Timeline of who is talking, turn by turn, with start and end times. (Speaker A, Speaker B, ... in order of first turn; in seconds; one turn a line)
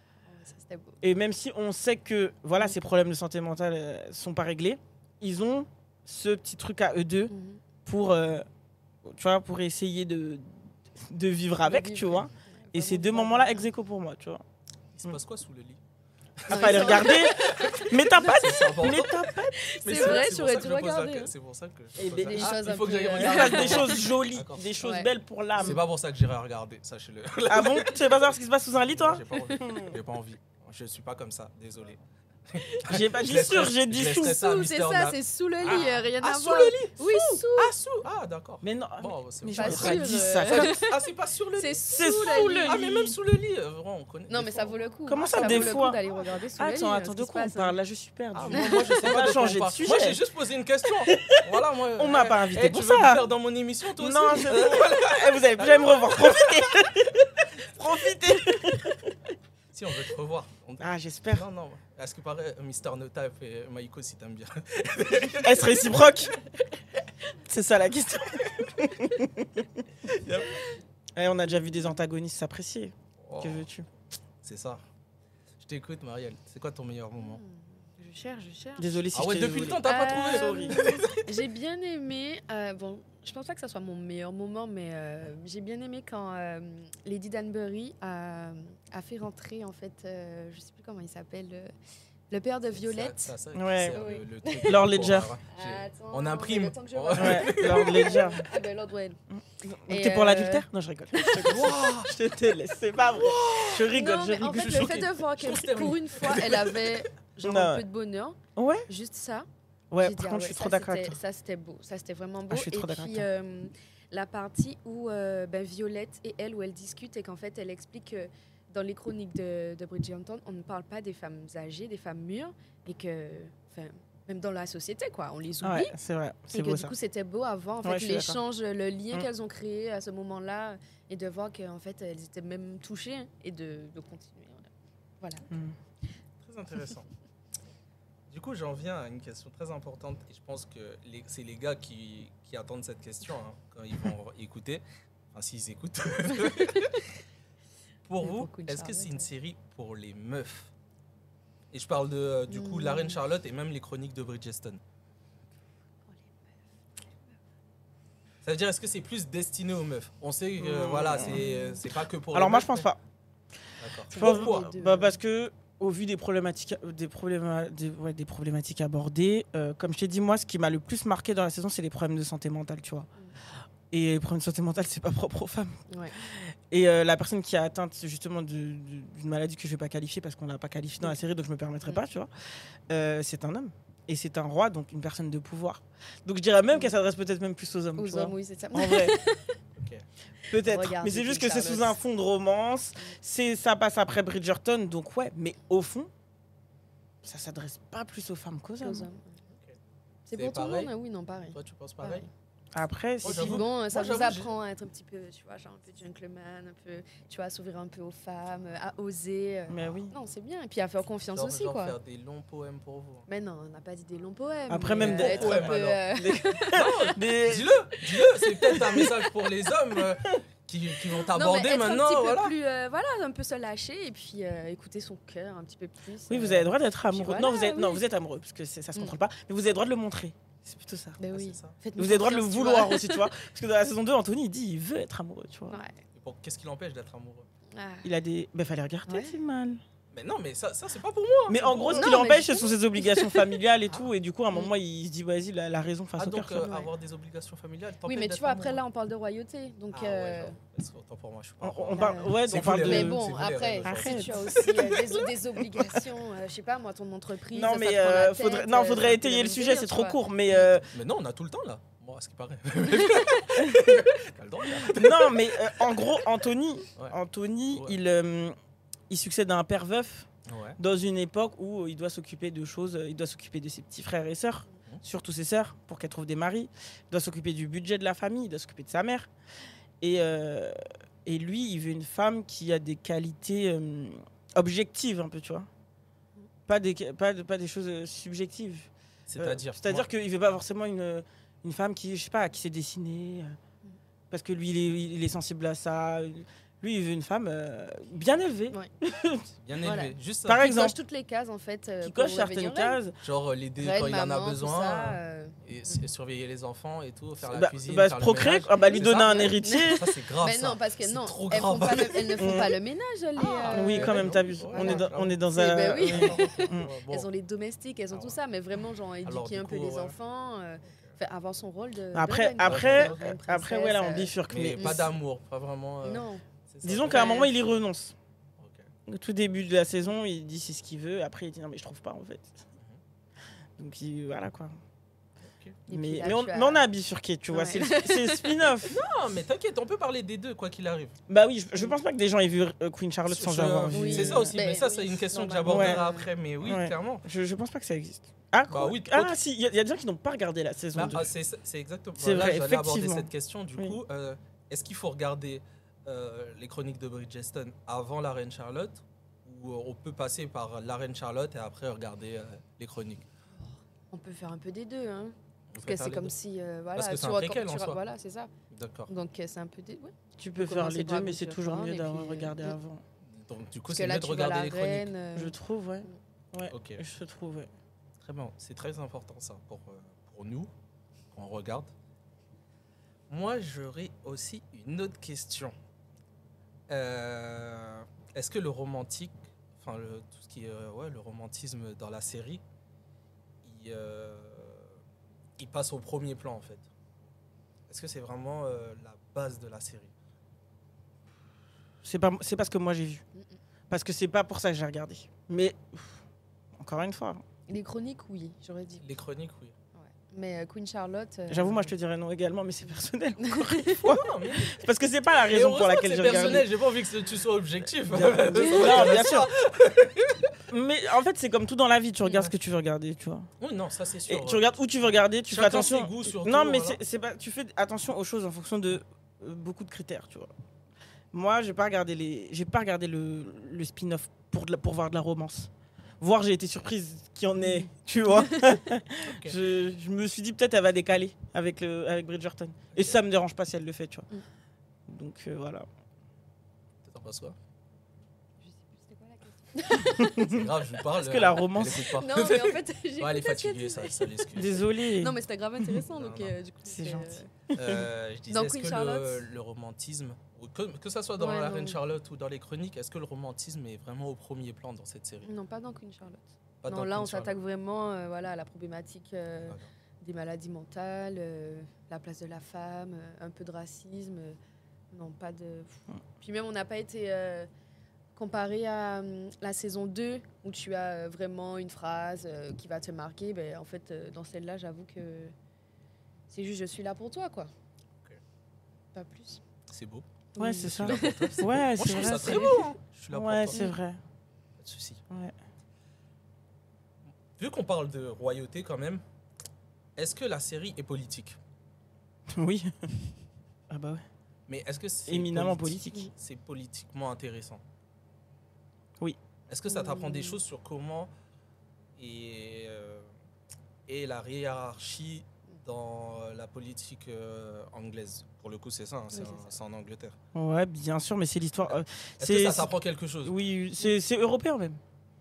Speaker A: 0.3-1.0
Speaker B: 1.0-7.3
Speaker A: 7.3-7.6
Speaker B: 7.8-8.4
Speaker B: 9.0-14.4
Speaker A: 11.6-13.7
Speaker C: 14.9-15.8
Speaker C: 16.4-24.6
Speaker A: 16.5-18.9
Speaker B: 16.5-20.2
Speaker A: 19.5-21.3
Speaker B: 22.0-25.8
Speaker A: 22.0-24.1
Speaker A: 24.8-25.8
Speaker C: 25.6-32.0
Speaker B: 27.5-30.0
Speaker C: 32.5-46.0
Speaker B: 32.8-34.4
Speaker A: 34.2-37.7
Speaker B: 38.6-40.8
Speaker A: 39.5-40.9
Speaker A: 41.6-42.8
Speaker B: 41.9-43.2
Speaker A: 44.3-47.8
Speaker B: 45.1-46.0
Speaker B: 46.6-50.2
Speaker C: 48.3-56.8
Speaker B: 51.0-51.4
Speaker B: 52.0-53.3
Speaker B: 54.0-59.1
Speaker C: 59.7-66.2
Speaker B: 60.8-61.5
Speaker B: 65.3-66.3
Speaker B: 67.5-69.7
Speaker B: 71.1-73.8
Speaker C: 73.2-73.7
Speaker C: 74.4-74.8
Speaker C: 75.6-77.4
Speaker A: 77.2-79.0
Speaker B: 78.8-80.9
Speaker C: 79.1-81.3
Speaker A: 79.8-91.7
Speaker A: 92.3-93.3
Speaker C: 92.7-98.3
Speaker B: 93.5-94.0
Speaker A: 93.9-95.0
Speaker B: 94.6-95.3
Speaker A: 95.5-99.2
Speaker B: 97.1-98.5
Speaker B: 99.3-104.9
Speaker A: 99.9-101.7
Speaker C: 101.4-102.2
Speaker C: 103.0-103.9
Speaker A: 103.9-109.5
Speaker C: 104.5-107.0
Speaker B: 107.4-107.8
Speaker B: 108.5-108.9
Speaker B: 109.9-111.2
Speaker A: 110.0-125.9
Speaker B: 112.5-113.3
Speaker B: 125.6-126.9
Speaker A: 126.5-134.7
Speaker B: 127.8-128.4
Speaker A: 135.2-135.4
Speaker C: 136.4-137.1
Speaker C: 138.3-144.8
Speaker C: 145.3-147.1
Speaker A: 146.4-146.9
Speaker C: 148.1-150.7
Speaker A: 148.2-149.3
Speaker C: 151.7-154.8
Speaker A: 152.5-153.2
Speaker A: 156.1-156.5
Speaker C: 158.4-162.9
Speaker B: 160.6-161.5
Speaker A: 161.3-161.8
Speaker B: 162.3-163.0
Speaker C: 163.8-164.7
Speaker A: 164.1-165.2
Speaker B: 164.1-173.1
Speaker B: 173.9-182.3
Speaker A: 175.9-176.2
Speaker B: 182.9-189.2
Speaker A: 188.0-189.6
Speaker C: 189.8-190.0
Speaker B: 190.5-196.1
Speaker A: 190.5-192.0
Speaker B: 197.2-199.1
Speaker A: 198.8-199.4
Speaker A: 200.3-202.3
Speaker C: 200.3-200.9
Speaker C: 201.5-202.2
Speaker B: 202.7-203.6
Speaker C: 203.2-204.5
Speaker A: 203.2-211.9
Speaker B: 209.7-210.1
Speaker C: 211.3-213.2
Speaker A: 213.3-217.1
Speaker B: 214.7-217.8
Speaker C: 215.0-216.0
Speaker C: 216.7-222.5
Speaker A: 217.9-219.1
Speaker A: 221.3-228.0
Speaker B: 226.3-231.2
Speaker A: 231.2-233.3
Speaker C: 231.3-231.8
Speaker B: 232.0-235.8
Speaker A: 235.7-236.0
Speaker C: 236.2-237.5
Speaker A: 237.7-238.1
Speaker B: 238.0-239.8
Speaker A: 239.1-239.3
Speaker C: 240.1-242.2
Speaker B: 241.5-246.7
Speaker A: 241.9-243.5
Speaker C: 246.2-248.8
Speaker A: 248.1-250.6
Speaker C: 249.9-254.9
Speaker B: 251.6-253.2
Speaker A: 251.9-260.7
Speaker B: 253.8-254.7
Speaker B: 257.5-260.9
Speaker C: 260.9-265.9
Speaker B: 263.6-263.9
Speaker B: 264.9-268.5
Speaker B: 269.1-279.3
Speaker C: 270.4-270.8
Speaker B: 280.0-285.7
Speaker B: 286.7-293.6
Speaker C: 289.3-290.1
Speaker B: 294.3-299.5
Speaker C: 299.6-300.6
Speaker A: 299.8-303.0
Speaker B: 300.4-300.9
Speaker B: 302.0-303.1
Speaker C: 303.2-312.6
Speaker A: 303.8-305.9
Speaker B: 307.4-310.1
Speaker A: 308.8-325.1
Speaker B: 312.4-312.7
Speaker C: 313.4-315.4
Speaker B: 313.6-316.9
Speaker C: 316.0-317.3
Speaker C: 318.1-318.4
Speaker C: 319.2-320.1
Speaker B: 322.1-325.1
Speaker C: 322.6-323.2
Speaker C: 324.5-327.4
Speaker A: 326.0-326.4
Speaker B: 326.8-328.1
Speaker A: 327.1-327.5
Speaker C: 328.6-328.9
Speaker B: 329.1-332.6
Speaker B: 333.8-334.7
Speaker C: 335.5-335.8
Speaker A: 335.9-336.9
Speaker B: 335.9-339.0
Speaker A: 337.5-338.8
Speaker C: 338.9-341.1
Speaker B: 341.3-344.5
Speaker C: 343.3-347.2
Speaker A: 343.9-346.3
Speaker B: 345.6-346.0
Speaker B: 346.6-351.3
Speaker C: 348.7-349.4
Speaker C: 350.9-363.2
Speaker B: 352.2-354.0
Speaker A: 364.1-368.5
Speaker C: 365.7-366.3
Speaker C: 366.9-368.0
Speaker C: 368.7-369.1
Speaker A: 369.1-372.8
Speaker B: 370.4-373.0
Speaker C: 373.3-375.1
Speaker A: 373.9-376.2
Speaker B: 375.3-377.7
Speaker C: 376.7-377.0
Speaker C: 378.2-380.7
Speaker C: 381.3-381.9
Speaker C: 383.3-385.7
Speaker C: 386.9-392.6
Speaker C: 393.6-394.9
Speaker C: 395.6-396.9
Speaker C: 397.9-400.1
Speaker B: 402.0-403.2
Speaker B: 403.9-406.2
Speaker B: 406.8-407.4
Speaker A: 407.7-409.1
Speaker C: 409.0-409.7
Speaker A: 409.9-411.9
Speaker B: 411.5-416.7
Speaker A: 413.4-413.9
Speaker C: 413.9-414.8
Speaker C: 415.4-420.5
Speaker A: 416.2-416.6
Speaker B: 418.0-419.5
Speaker B: 420.7-423.5
Speaker C: 423.6-424.7
Speaker B: 424.3-430.5
Speaker C: 425.5-427.0
Speaker B: 431.3-444.3
Speaker A: 438.4-438.6
Speaker C: 439.2-439.6
Speaker C: 442.9-443.2
Speaker B: 445.1-445.9
Speaker C: 447.0-447.6
Speaker A: 448.6-450.6
Speaker B: 450.1-450.6
Speaker C: 450.3-454.8
Speaker B: 451.1-452.0
Speaker A: 452.0-457.5
Speaker B: 454.5-455.4
Speaker C: 456.1-456.5
Speaker B: 456.8-458.0
Speaker C: 457.7-465.5
Speaker A: 458.5-459.4
Speaker A: 461.4-462.0
Speaker A: 465.4-474.6
Speaker C: 466.8-467.5
Speaker A: 475.1-477.7
Speaker A: 478.4-485.5
Speaker A: 486.5-487.7
Speaker A: 489.1-489.6
Speaker C: 489.9-490.2
Speaker A: 490.5-492.8
Speaker B: 490.6-494.2
Speaker C: 490.8-493.8
Speaker C: 494.8-495.2
Speaker B: 495.3-495.5
Speaker C: 497.6-499.2
Speaker C: 500.1-501.6
Speaker B: 502.5-503.1
Speaker B: 503.9-504.2
Speaker C: 504.7-507.8
Speaker B: 505.3-506.2
Speaker C: 509.7-511.3
Speaker A: 509.9-510.6
Speaker C: 512.2-513.3
Speaker C: 514.1-520.4
Speaker A: 519.3-519.7
Speaker B: 520.5-522.9
Speaker C: 521.9-523.6
Speaker B: 523.4-525.0